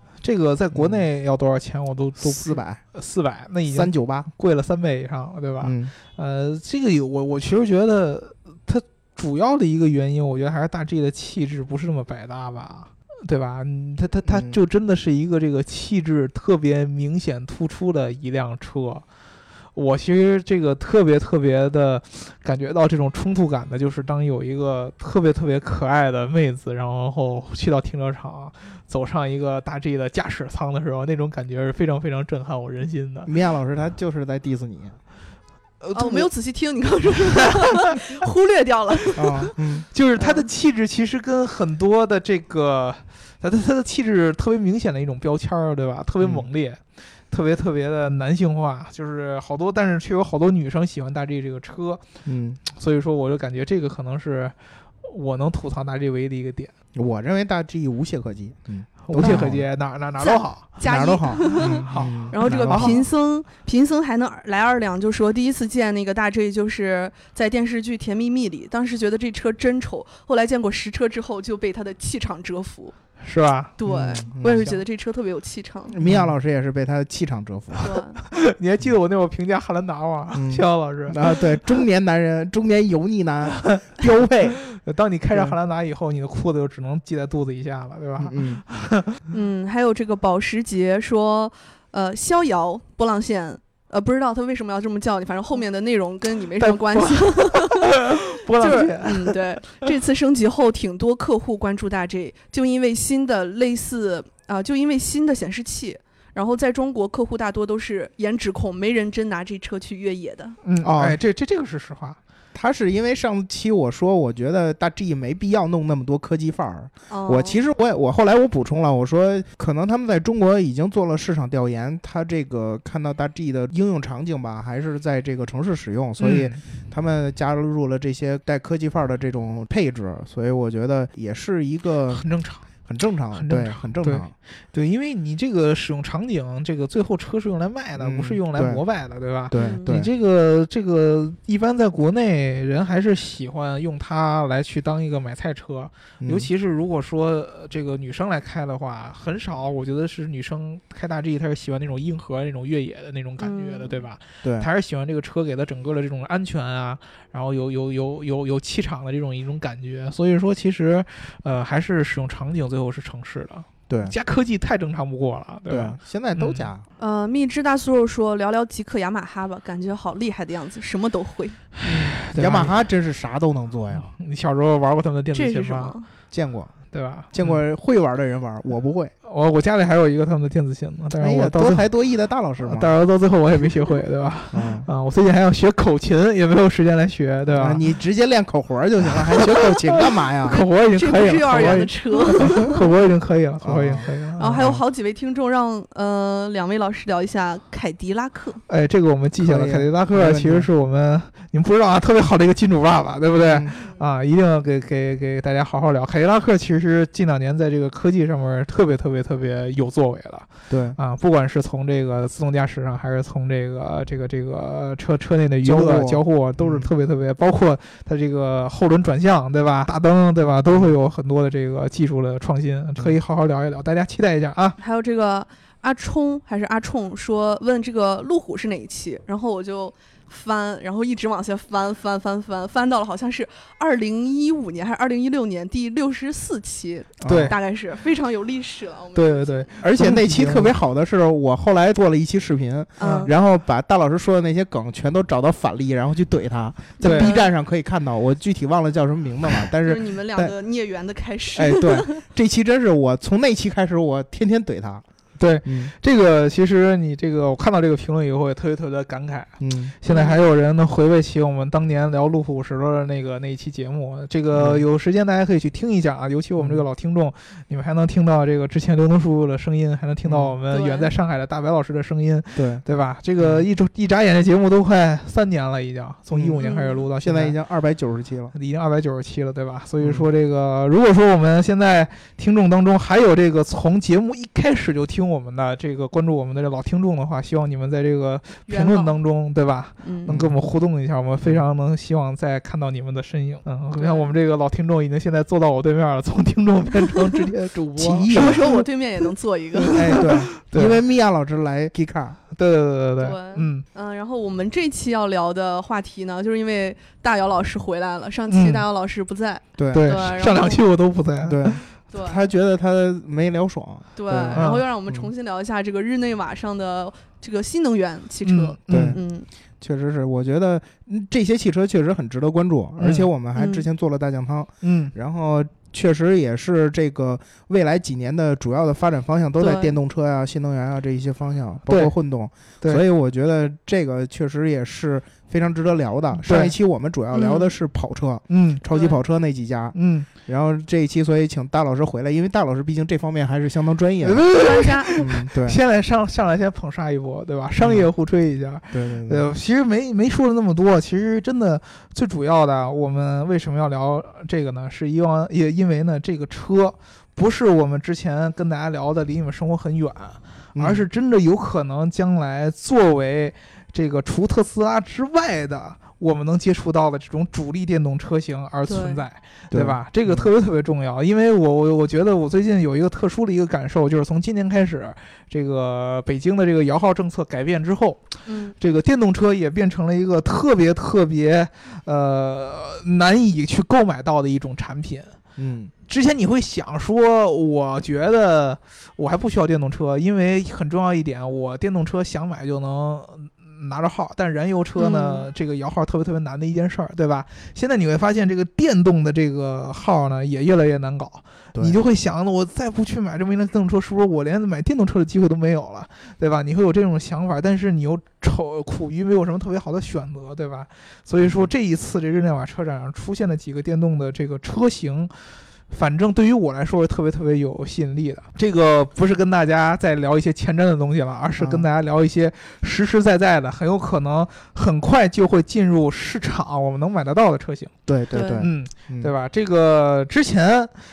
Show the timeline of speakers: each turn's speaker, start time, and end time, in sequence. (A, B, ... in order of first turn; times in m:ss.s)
0:00.2-0:19.0 A
0:00.7-0:01.1 B
0:02.2-0:02.8 B
0:03.7-0:04.3 B
0:05.6-0:05.9 B
0:14.2-0:14.6 B
0:19.8-0:33.3 A
0:33.2-0:34.9 B
0:35.8-0:36.3 A
0:35.9-0:39.5 C
0:39.2-0:39.8 B
0:39.9-0:46.8 A
0:40.2-0:40.5 C
0:46.2-0:46.5 B
0:47.3-0:52.0 A
0:52.2-0:52.6 B
0:52.7-0:56.7 A
0:56.9-0:59.7 B
0:59.1-1:00.7 A
0:59.2-0:59.5 C
1:00.2-1:13.0 C
1:00.8-1:03.0 B
1:01.5-1:03.0 A
1:13.2-1:13.8 A
1:13.8-1:16.0 C
1:13.9-1:14.7 B
1:15.9-1:17.9 B
1:16.0-1:16.3 A
1:17.8-1:18.2 C
1:18.2-1:21.5 A
1:20.3-1:24.6 B
1:24.6-1:29.2 A
1:25.3-1:25.6 B
1:28.2-1:28.6 B
1:29.3-1:50.6 C
1:36.6-1:39.8 A
1:50.6-1:52.2 A
1:50.8-1:51.2 B
1:52.5-2:12.2 B
1:57.1-1:57.6 C
2:06.2-2:06.6 A
2:12.1-2:12.7 A
2:12.9-2:14.3 B
2:13.3-2:46.7 A
2:18.0-2:18.8 B
2:19.5-2:20.1 B
2:19.5-2:19.9 C
2:26.2-2:26.5 B
2:33.4-2:34.0 C
2:34.4-2:34.7 B
2:43.9-2:44.2 B
2:45.7-2:46.8 B
2:47.0-2:51.6 C
2:51.8-2:52.8 A
2:51.8-2:54.1 B
2:53.9-2:56.0 A
2:55.3-2:56.0 C
2:56.3-2:56.7 B
2:56.9-2:57.6 A
2:57.3-2:59.1 B
2:59.2-3:01.9 A
3:01.2-3:02.9 B
3:02.6-3:07.8 A
3:04.5-3:04.9 B
3:07.5-3:10.6 B
3:09.2-3:14.6 A
3:10.5-3:12.8 C
3:11.4-3:12.7 B
3:13.6-3:14.8 B
3:14.4-3:18.6 C
3:18.7-3:44.8 A
3:19.4-3:20.7 B
3:23.4-3:23.7 B
3:30.7-3:31.0 B
3:35.6-3:36.9 B
3:40.7-3:40.9 B
3:44.8-3:59.7 C
3:57.2-3:57.5 B
3:57.3-3:57.6 A
3:59.2-4:00.7 A
3:59.8-4:10.5 B
4:03.0-4:03.3 C
4:03.0-4:03.3 A
4:07.0-4:07.5 C
4:07.0-4:07.4 A
4:09.8-4:12.2 C
4:11.6-4:11.9 A
4:11.7-4:15.0 B
4:15.4-4:37.5 A
4:15.6-4:15.9 B
4:19.6-4:19.9 B
4:20.1-4:20.4 C
4:24.5-4:24.8 B
4:26.6-4:26.8 B
4:30.2-4:30.6 B
4:30.7-4:31.1 C
4:32.6-4:32.8 B
4:33.4-4:33.6 B
4:36.3-4:36.6 B
4:36.6-4:37.0 C
4:37.2-4:38.5 B
4:38.5-4:58.8 A
4:40.0-4:40.3 B
4:48.7-4:49.1 C
4:50.0-4:50.4 C
4:50.3-4:50.6 B
4:54.0-4:54.3 C
4:58.0-4:58.7 B
4:58.3-5:00.2 C
4:59.8-5:01.0 A
5:00.0-5:02.4 B
5:02.5-5:03.8 A
5:03.2-5:10.8 C
5:08.5-5:08.8 A
5:09.8-5:10.1 B
5:09.9-5:11.9 A
5:11.4-5:15.3 B
5:12.1-5:12.5 C
5:14.2-5:19.5 C
5:14.5-5:14.8 A
5:18.4-5:19.2 A
5:18.9-5:19.2 B
5:19.8-5:44.6 B
5:23.0-5:23.3 A
5:23.6-5:23.9 C
5:24.8-5:25.1 A
5:29.6-5:29.9 C
5:31.9-5:32.1 A
5:36.4-5:36.8 A
5:37.3-5:37.7 C
5:38.5-5:38.8 A
5:39.9-5:40.3 A
5:44.2-6:18.2 A
5:44.5-5:45.1 C
5:45.1-5:45.8 B
5:47.8-5:48.1 B
5:48.9-5:49.5 B
6:00.8-6:01.1 B
6:08.9-6:09.2 C
6:09.7-6:10.5 B
6:18.4-6:18.8 C
6:18.8-6:25.3 A
6:25.6-6:25.9 B
6:26.1-6:55.3 A
6:35.0-6:35.5 C
6:51.4-6:51.7 B
6:55.9-7:07.9 A
7:01.6-7:01.9 B
7:08.1-7:09.3 B
7:08.3-7:08.6 C
7:08.6-7:10.9 A